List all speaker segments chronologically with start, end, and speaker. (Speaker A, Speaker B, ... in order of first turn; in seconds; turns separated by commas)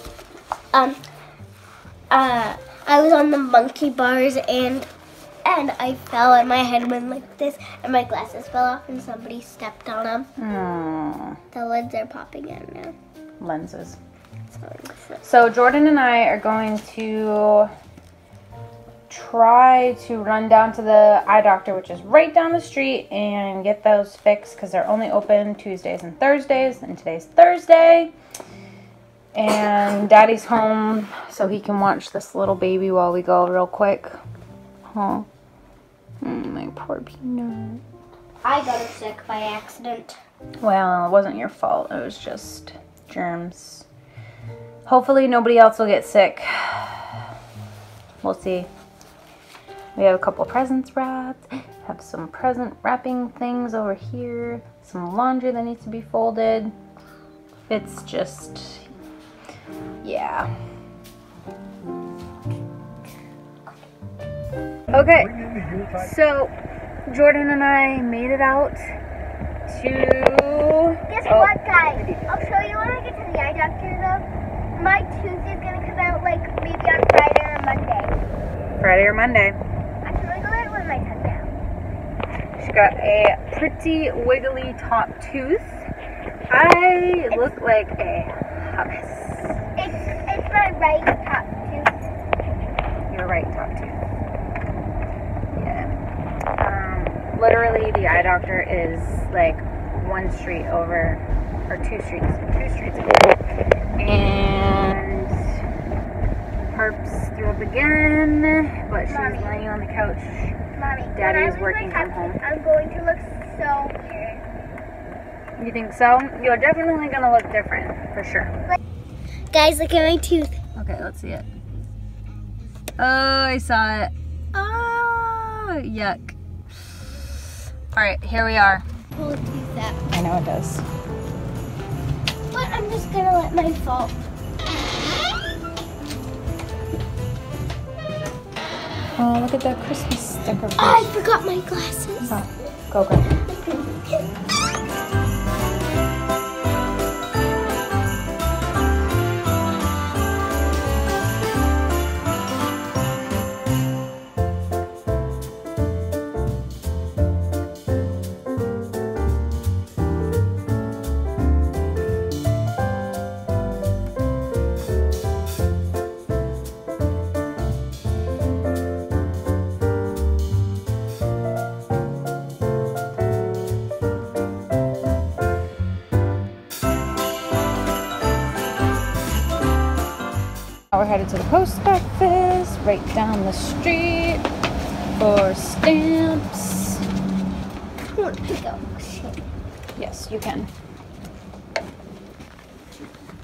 Speaker A: 0.7-1.0, Speaker A: 2.1-4.9, Speaker A: 5.4-10.3, Speaker B: 10.4-11.4, Speaker A: 11.5-12.9, Speaker B: 13.4-14.0, Speaker A: 14.5-15.2, Speaker B: 15.2-17.7, Speaker B: 19.1-28.1, Speaker B: 29.3-34.2, Speaker B: 34.9-35.3, Speaker B: 36.2-37.8, Speaker A: 38.4-40.2, Speaker B: 40.6-43.9, Speaker B: 44.9-47.1, Speaker B: 48.2-48.7, Speaker B: 50.0-56.7, Speaker B: 57.7-58.9, Speaker B: 60.0-60.5, Speaker B: 64.9-66.5, Speaker B: 67.1-68.8, Speaker B: 69.7-72.2, Speaker A: 71.1-78.2, Speaker B: 78.8-79.6, Speaker A: 80.0-81.5, Speaker B: 82.6-85.9, Speaker B: 86.5-89.6, Speaker A: 89.8-92.0, Speaker B: 93.1-94.0, Speaker B: 95.5-95.9, Speaker B: 96.6-103.4, Speaker B: 104.0-105.4, Speaker B: 106.6-110.6, Speaker A: 109.1-109.7, Speaker A: 110.7-114.4, Speaker B: 111.1-112.4, Speaker B: 115.6-118.5, Speaker A: 119.5-120.6, Speaker B: 120.8-121.5, Speaker B: 123.0-126.3, Speaker B: 127.9-128.8, Speaker A: 129.1-130.0, Speaker B: 130.1-130.8, Speaker A: 132.5-134.2, Speaker B: 139.2-141.1, Speaker A: 140.8-142.4, Speaker B: 142.3-143.3, Speaker A: 143.6-144.2, Speaker B: 180.9-184.4, Speaker B: 185.2-187.0, Speaker A: 188.1-189.4, Speaker B: 189.9-190.7